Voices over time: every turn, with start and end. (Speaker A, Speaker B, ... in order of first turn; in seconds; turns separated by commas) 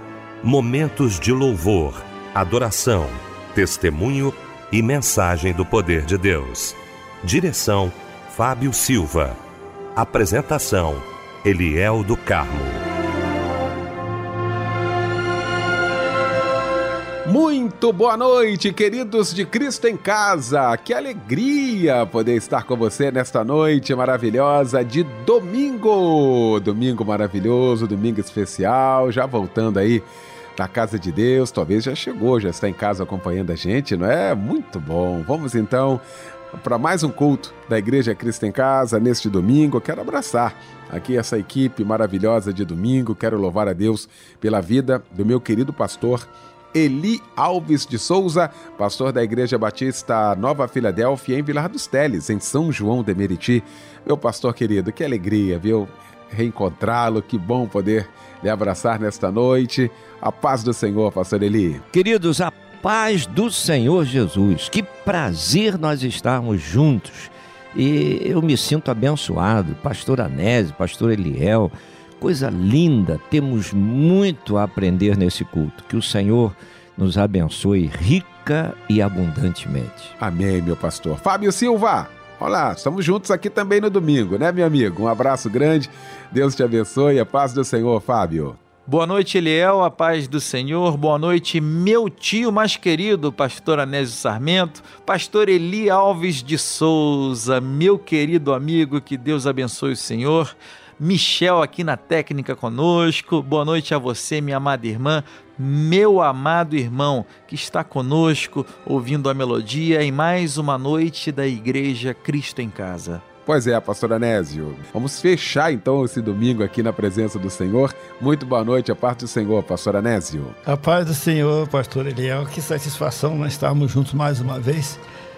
Speaker A: 0.4-9.4, Speaker A: 9.9-12.8, Speaker B: 17.2-61.8, Speaker C: 61.9-80.1, Speaker B: 80.2-88.6, Speaker D: 88.9-113.2, Speaker B: 113.5-120.5, Speaker E: 120.7-125.0